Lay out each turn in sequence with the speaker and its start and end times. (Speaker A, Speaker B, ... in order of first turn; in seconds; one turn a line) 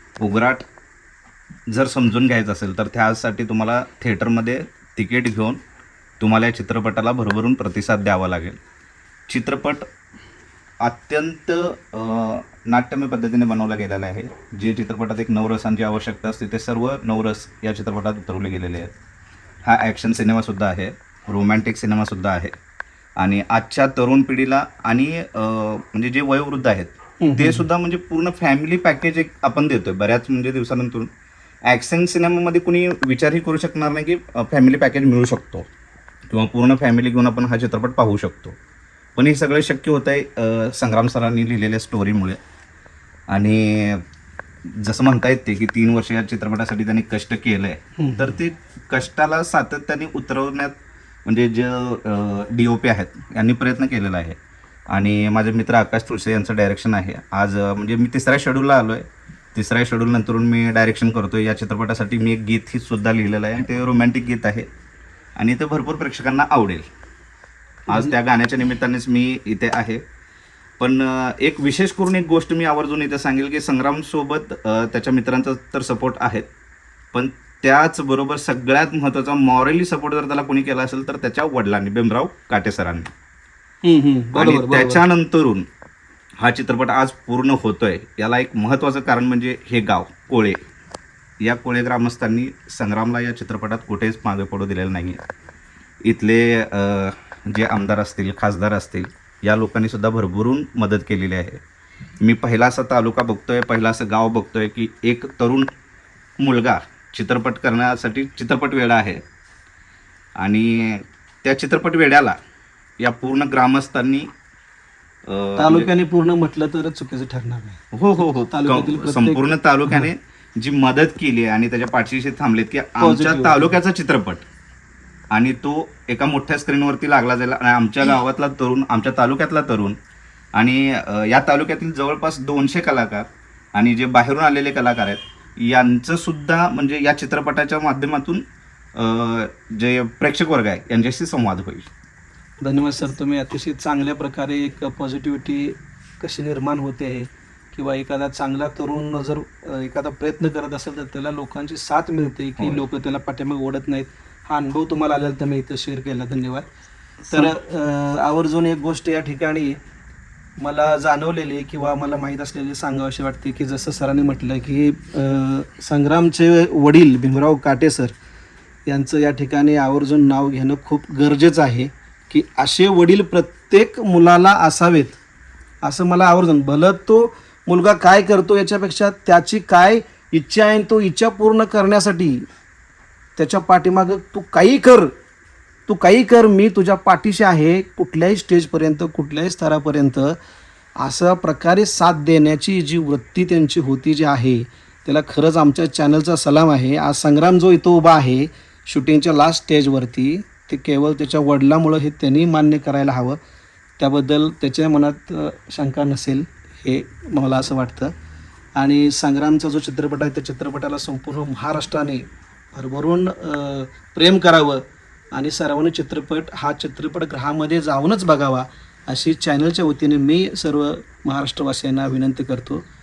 Speaker A: 0.2-0.6
Speaker A: 1.7-5.6
Speaker A: 6.2-8.6
Speaker A: 9.3-9.8
Speaker A: 10.8-18.9
Speaker A: 19.6-22.5
Speaker A: 23.2-31.1
Speaker B: 27.2-27.7
Speaker A: 31.7-35.7
Speaker A: 36.3-38.6
Speaker A: 39.2-42.4
Speaker A: 43.3-44.0
Speaker A: 44.8-50.7
Speaker B: 48.0-48.4
Speaker A: 51.3-54.4
Speaker A: 54.9-64.7
Speaker A: 65.4-66.8
Speaker A: 67.9-70.0
Speaker A: 70.8-76.5
Speaker A: 77.1-83.1
Speaker B: 83.8-85.0
Speaker A: 84.3-85.7
Speaker A: 86.4-90.6
Speaker A: 91.4-95.2
Speaker A: 96.0-101.6
Speaker A: 102.2-105.7
Speaker A: 106.4-109.2
Speaker A: 110.4-112.4
Speaker A: 113.0-114.3
Speaker A: 115.3-115.9
Speaker B: 115.6-120.1
Speaker A: 117.9-124.5
Speaker B: 123.0-123.8
Speaker A: 125.3-130.0
Speaker A: 130.6-138.4
Speaker A: 139.0-141.9
Speaker B: 142.6-156.7
Speaker A: 152.6-152.8
Speaker B: 157.3-159.8
Speaker B: 160.6-168.2
Speaker B: 168.9-175.2
Speaker B: 175.8-182.5
Speaker B: 183.4-185.1
Speaker B: 185.9-190.4
Speaker B: 191.0-203.4
Speaker B: 204.0-208.1
Speaker B: 208.8-222.8